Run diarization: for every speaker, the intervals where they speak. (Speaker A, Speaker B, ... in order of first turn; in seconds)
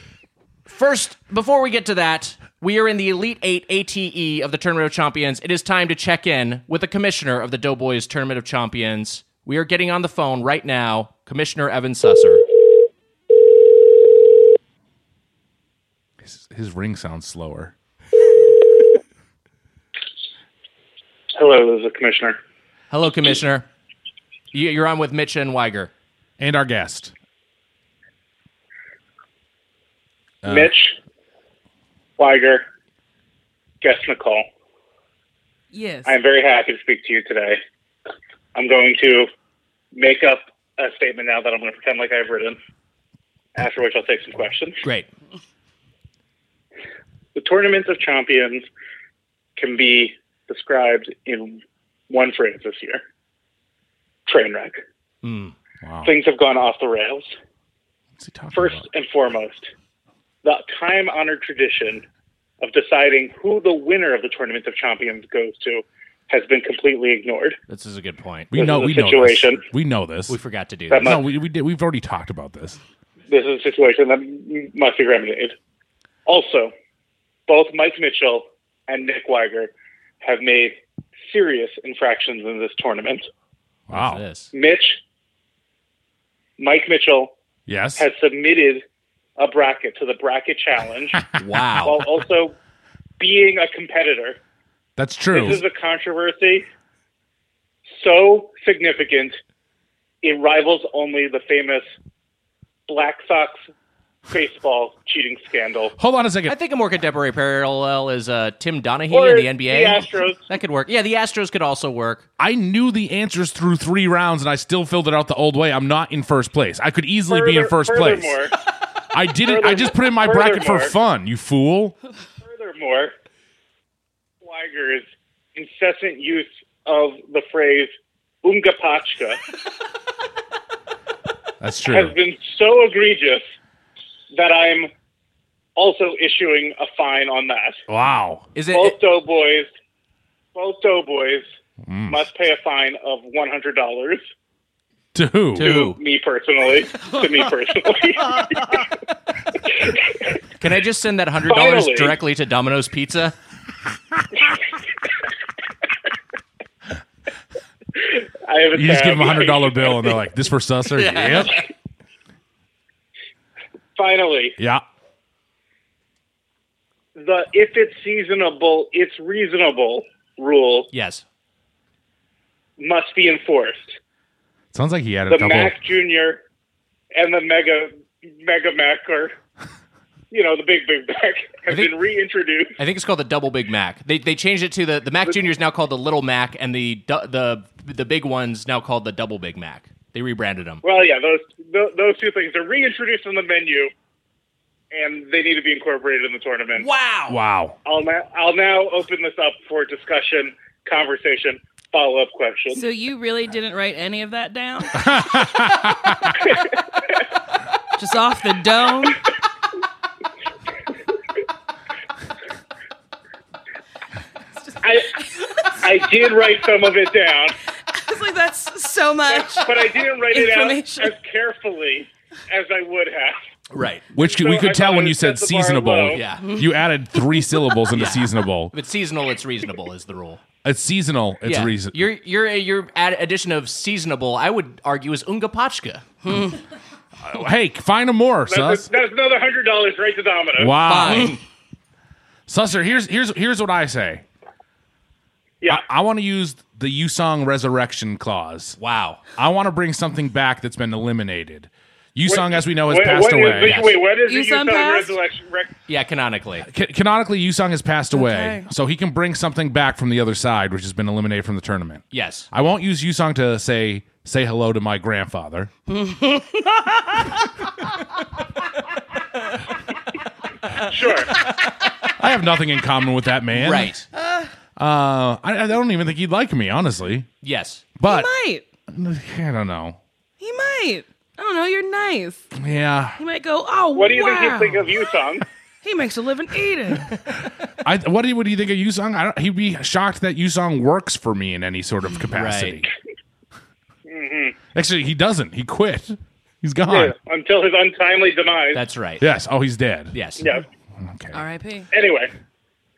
Speaker A: 0.7-12.4, 22.9-23.7, 24.5-25.9, 44.8-45.1, 55.2-55.5, 67.7-68.5, 70.3-71.2, 83.9-84.5, 91.4-92.0, 106.5-112.2, 138.6-139.0, 145.6-146.0, 150.6-153.3, 160.9-161.6, 170.9-171.2, 181.7-181.9, 182.8-190.8, 196.8-197.4, 223.7-224.1, 226.1-226.5, 227.9-230.4, 231.4-236.0, 240.8-241.4, 248.8-249.2, 253.6-254.0, 255.9-256.7, 262.1-262.5, 271.4-272.1, 273.5-274.1, 277.4-277.9, 292.3-292.9, 298.7-299.3, 300.1-300.5
Speaker B: 16.2-17.7, 26.4-27.1, 30.4-30.7, 55.8-56.1, 58.2-58.9, 68.5-70.4, 70.9-72.8, 83.9-84.2, 87.7-88.1, 95.0-95.6, 106.0-106.5, 112.4-118.4, 119.1-122.0, 131.6-132.2, 137.9-138.5, 141.8-142.2, 145.1-145.7, 158.7-161.6, 164.6-164.8, 174.7-175.8, 197.3-197.8, 205.0-206.3, 224.2-228.7, 230.6-232.1, 237.2-238.9, 240.6-241.4, 242.5-244.2, 245.7-248.8, 249.4-253.9, 256.7-265.7, 272.1-273.9, 274.8-277.3, 278.0-278.3, 278.9-280.0, 282.5-283.2, 287.8-292.9, 294.7-297.1, 299.2-300.2, 301.0-301.4
Speaker C: 21.4-22.4, 30.4-30.9, 32.2-32.6, 33.8-34.5, 36.1-37.6, 38.5-39.3, 39.9-42.6, 43.6-44.8, 47.4-48.7, 49.6-53.0, 54.3-54.8, 56.0-57.3, 58.5-59.7, 60.4-62.0, 62.6-67.6, 68.5-69.6, 70.9-71.2, 73.3-75.5, 76.3-76.7, 77.5-79.7, 80.2-80.8, 81.3-83.3, 84.5-85.0, 86.6-87.3, 88.0-88.8, 89.4-91.3, 91.8-92.5, 93.2-94.4, 95.3-96.7, 98.0-99.4, 100.2-101.9, 102.9-103.6, 104.3-106.0, 109.1-110.4, 117.3-118.5, 119.4-120.9, 122.4-123.1, 124.4-127.9, 128.4-129.4, 131.9-133.4, 134.3-134.9, 135.8-137.8, 138.7-139.7, 140.6-141.4, 142.1-144.2, 145.6-148.9, 149.7-150.3, 151.4-152.2, 158.0-160.2, 164.0-164.6, 167.2-170.9, 172.8-174.0, 175.3-176.4, 177.1-179.3, 180.3-182.7, 190.8-193.9, 194.9-196.9, 197.8-202.8, 214.8-217.6, 219.3-223.4, 224.2-226.2, 238.5-240.8, 252.3-255.7, 270.9-271.3, 283.9-285.5, 294.1-294.6, 296.9-298.8, 300.4-300.7, 301.9-302.3
Speaker D: 35.7-36.2, 202.7-205.2, 208.0-209.2, 217.9-221.1, 226.4-226.8, 236.2-236.6, 254.3-255.2, 258.1-258.6, 265.9-267.5, 278.0-278.6, 280.4-282.5, 283.2-284.9, 285.8-287.1, 301.3-301.9